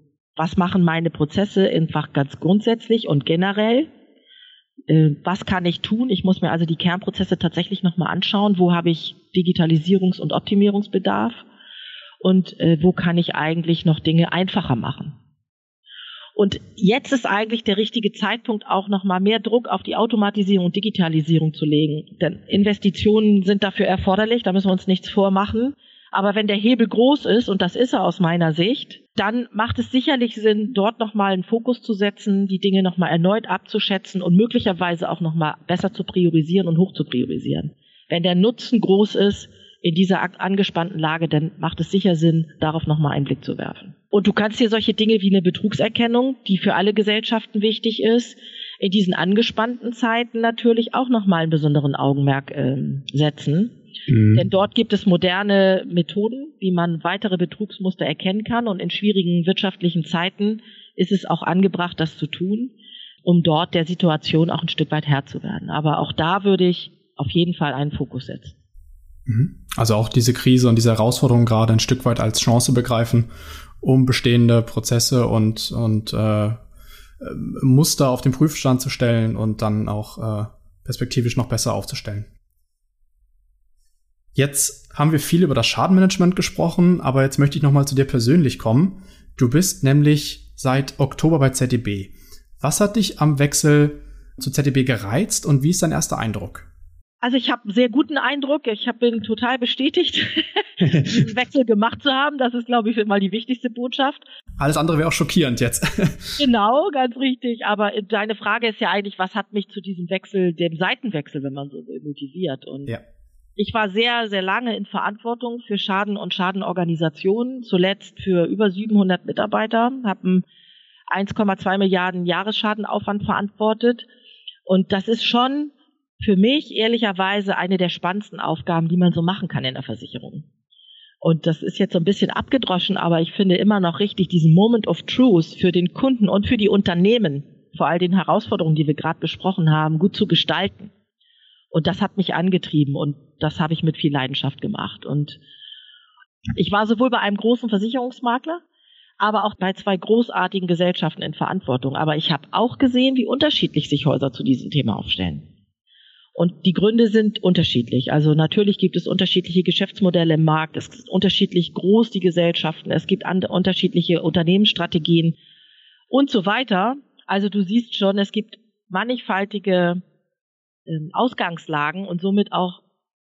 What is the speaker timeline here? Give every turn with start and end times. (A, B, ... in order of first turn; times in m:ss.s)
0:00.4-0:03.9 A
0:04.9-0:11.4 A
0:12.2-0:15.2 A
0:16.4-0:53.8 A
0:54.1-0:54.4 B
0:54.3-1:02.7 A
1:03.2-1:08.6 A
1:09.3-1:13.3 B
1:13.8-1:16.6 B
1:17.2-1:22.3 B
1:24.4-1:36.7 B
1:37.2-1:44.2 A
1:40.8-1:41.1 B
1:44.6-1:46.4 B
1:46.4-1:53.0 A
1:53.6-2:00.5 A
2:01.1-2:04.1 A
2:04.7-2:10.5 A
2:11.2-2:20.9 A
2:21.7-2:25.4 A
2:26.6-2:28.6 A
2:29.2-2:35.5 A
2:36.4-2:45.4 A
2:46.1-2:50.0 A
2:50.9-2:52.8 A